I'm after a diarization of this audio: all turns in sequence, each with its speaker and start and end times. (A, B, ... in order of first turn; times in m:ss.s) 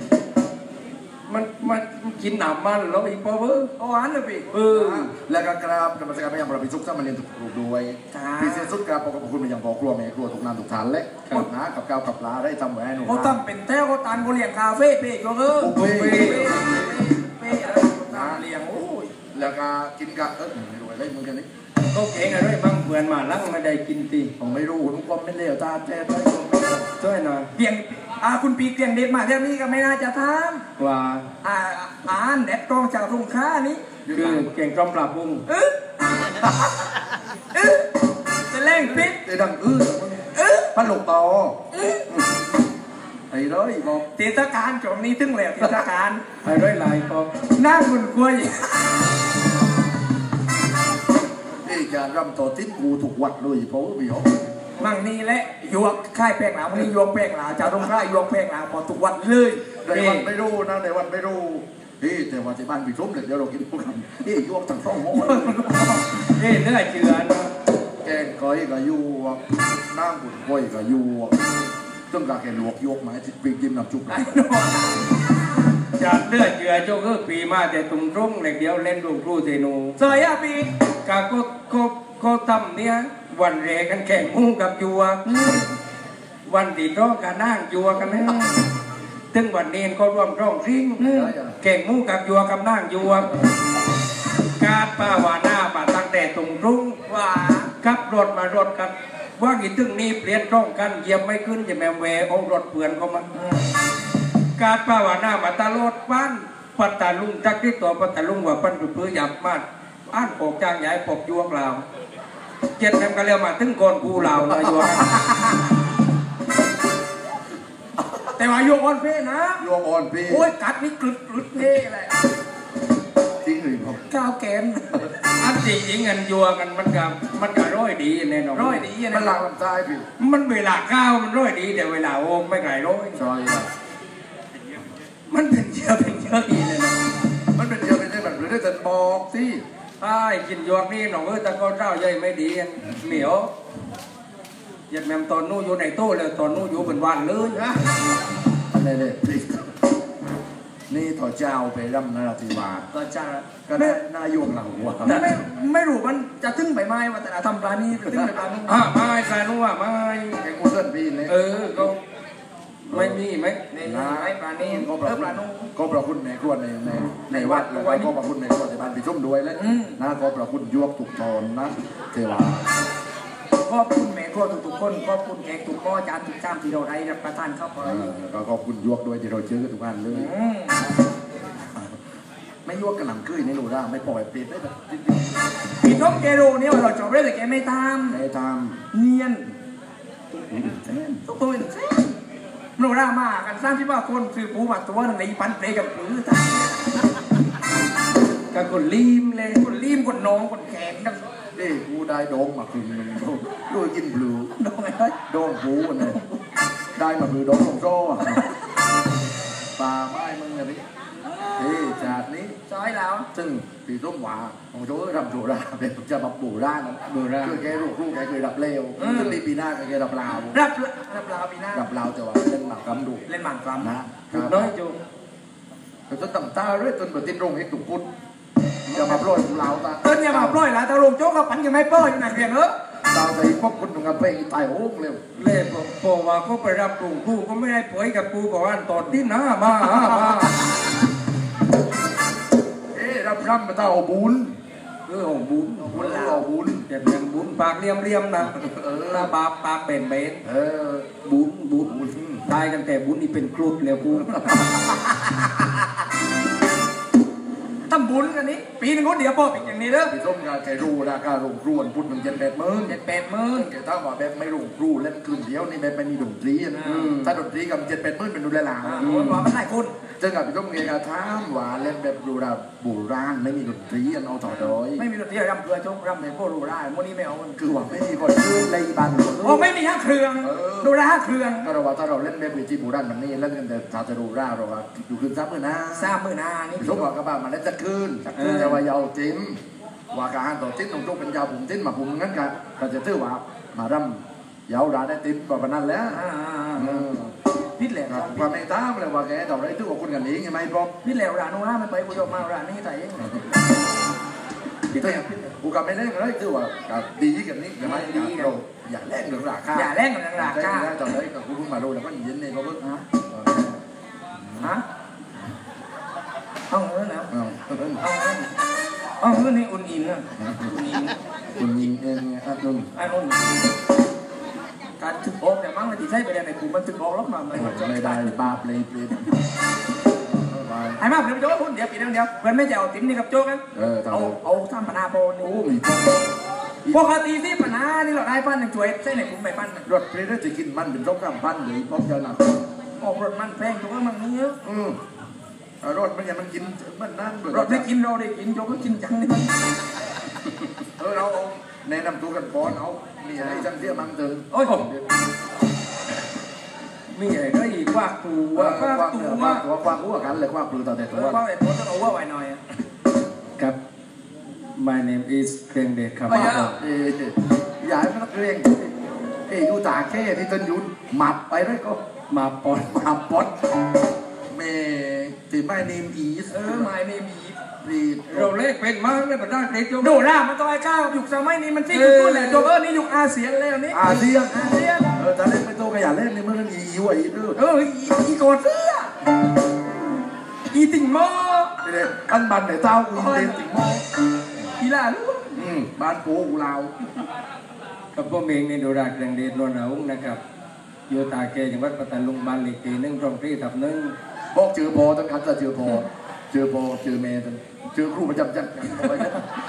0:01.3-0:03.7 A
0:03.8-0:04.5 B
0:04.5-0:05.1 A
0:04.7-0:13.4 C
0:08.1-0:08.7 B
0:13.0-0:19.1 B
0:15.6-0:17.1 C
0:15.7-0:16.5 A
0:18.1-0:18.4 C
0:19.3-0:21.5 C
0:21.9-0:24.3 A
0:24.4-0:26.9 C
0:27.0-0:27.5 A
0:27.5-0:30.6 B
0:30.8-0:31.2 A
0:31.4-0:33.8 B
0:34.0-0:34.5 C
0:34.1-0:35.4 A
0:35.5-0:36.2 B
0:37.5-0:37.9 B
0:38.5-0:39.2 B
0:38.7-0:41.6 C
0:40.3-0:40.7 B
0:41.7-0:42.1 B
0:42.1-0:42.4 C
0:43.3-0:44.1 C
0:44.2-0:46.2 B
0:46.4-0:47.3 A
0:47.5-0:48.7 B
0:51.6-0:54.3 C
0:54.8-0:59.6 B
0:59.8-1:05.6 C
0:59.9-1:00.3 A
1:05.1-1:06.0 B
1:06.2-1:07.5 A
1:08.0-1:11.4 C
1:12.1-1:14.4 C
1:14.1-1:15.0 B
1:16.0-1:20.0 A
1:20.0-1:20.7 B
1:21.0-1:25.2 A
1:25.2-1:25.7 B
1:26.5-1:28.4 A
1:29.3-1:31.0 A
1:31.0-1:31.3 B
1:31.0-1:31.6 C
1:31.6-1:33.4 A
1:34.6-1:37.0 A
1:37.1-1:37.7 B
1:37.8-1:43.3 A
1:43.3-1:43.7 B
1:44.6-1:51.8 A
1:52.8-1:55.1 A
1:54.2-1:55.5 C
1:58.4-1:59.6 B
1:59.6-2:00.5 C
2:00.3-2:02.2 B
2:03.4-2:04.0 C
2:04.1-2:05.1 B
2:05.3-2:08.8 A
2:08.5-2:09.4 B
2:09.1-2:10.1 C
2:10.2-2:13.2 A
2:13.1-2:13.7 C
2:15.3-2:16.9 A
2:17.5-2:19.6 C
2:20.0-2:23.5 A
2:24.9-2:27.6 A
2:27.5-2:27.8 B
2:28.7-2:29.7 C
2:30.9-2:32.8 C
2:32.9-2:34.0 B
2:33.7-2:35.3 C
2:35.0-2:38.8 B
2:38.0-2:38.3 C
2:38.7-2:40.4 A
2:40.4-2:41.9 C
2:41.2-2:42.0 A
2:42.9-2:43.2 C
2:42.9-2:43.6 A
2:43.7-2:45.7 B
2:43.8-2:52.7 C
2:47.3-2:48.1 B
2:49.6-2:50.0 B
2:53.6-2:58.1 B
2:57.8-3:00.3 C
3:00.1-3:00.8 B
3:01.6-3:01.9 C
3:02.6-3:05.4 C
3:05.8-3:08.2 B
3:08.1-3:08.8 C
3:08.9-3:09.5 B
3:10.5-3:10.8 C
3:10.7-3:12.2 B
3:12.8-3:16.7 B
3:18.5-3:19.6 A
3:19.5-3:21.2 B
3:21.5-3:24.5 C
3:24.6-3:25.2 B
3:25.3-3:26.2 C
3:26.9-3:28.4 C
3:29.8-3:30.8 C
3:31.2-3:31.7 B
3:31.5-3:32.6 C
3:32.7-3:33.3 B
3:33.3-3:40.6 C
3:37.1-3:37.6 A
3:39.0-3:39.4 B
3:40.5-3:41.9 B
3:41.7-3:43.2 C
3:43.3-3:43.9 B
3:43.8-3:44.7 C
3:44.3-3:45.0 A
3:46.1-3:48.1 C
3:48.9-3:50.6 C
3:50.0-3:52.7 B
3:53.1-3:55.2 C
3:55.4-4:00.6 A
3:59.8-4:00.5 C
4:02.9-4:04.6 C
4:05.1-4:06.0 A
4:05.9-4:06.9 C
4:06.0-4:06.4 B
4:06.9-4:08.5 A
4:08.5-4:09.3 C
4:09.1-4:10.4 A
4:10.4-4:11.1 C
4:11.2-4:11.9 A
4:11.9-4:12.4 C
4:12.4-4:14.5 A
4:14.3-4:14.9 C
4:17.9-4:20.1 B
4:20.1-4:23.0 C
4:22.9-4:23.7 B
4:23.5-4:29.1 C
4:26.7-4:27.1 B
4:26.8-4:27.3 A
4:28.8-4:29.9 B
4:29.0-4:29.4 A
4:30.2-4:35.0 C
4:34.6-4:37.6 B
4:37.6-4:39.7 C
4:39.4-4:41.7 B
4:40.4-4:40.9 C
4:41.6-4:46.2 C
4:45.9-4:47.1 B
4:46.8-4:49.6 C
4:48.4-4:48.8 A
4:50.1-4:56.2 C
4:56.1-4:57.1 B
4:56.8-4:57.3 C
4:57.8-4:58.5 B
4:58.1-5:00.9 C
5:01.0-5:03.6 B
5:04.9-5:05.5 B
5:05.0-5:13.8 C
5:07.8-5:08.5 B
5:09.7-5:10.9 B
5:16.7-5:17.3 B
5:17.3-5:18.0 C
5:18.0-5:18.5 B
5:19.2-5:21.2 B
5:20.4-5:20.7 C
5:21.6-5:22.9 C
5:22.9-5:23.4 B
5:25.0-5:28.3 B
5:27.5-5:29.2 C
5:30.3-5:31.0 C
5:31.0-5:35.5 B
5:33.7-5:34.4 C
5:35.4-5:36.3 C
5:36.9-5:39.9 B
5:39.8-5:42.6 C
5:43.0-5:44.6 B
5:44.6-5:45.0 C
5:45.8-5:47.9 C
5:47.5-5:49.5 B
5:51.0-5:55.1 C
5:53.4-5:53.7 B
5:54.5-5:54.8 B
5:57.1-5:59.5 A
5:58.5-6:01.4 C
5:59.1-5:59.6 B
6:01.1-6:02.6 B
6:04.8-6:06.8 A
6:06.3-6:08.9 C
6:06.3-6:06.7 B
6:09.5-6:12.0 C
6:12.3-6:13.0 A
6:12.9-6:13.5 C
6:14.5-6:16.9 C
6:16.5-6:17.6 B
6:17.8-6:18.5 C
6:18.3-6:20.2 A
6:20.0-6:25.1 B
6:21.9-6:22.7 A
6:23.9-6:27.6 C
6:27.5-6:29.1 B
6:30.7-6:31.7 B
6:31.8-6:34.0 C
6:33.1-6:33.7 B
6:34.8-6:35.6 B
6:35.5-6:36.9 C
6:38.1-6:40.4 A
6:41.1-6:44.1 A
6:44.5-6:49.4 C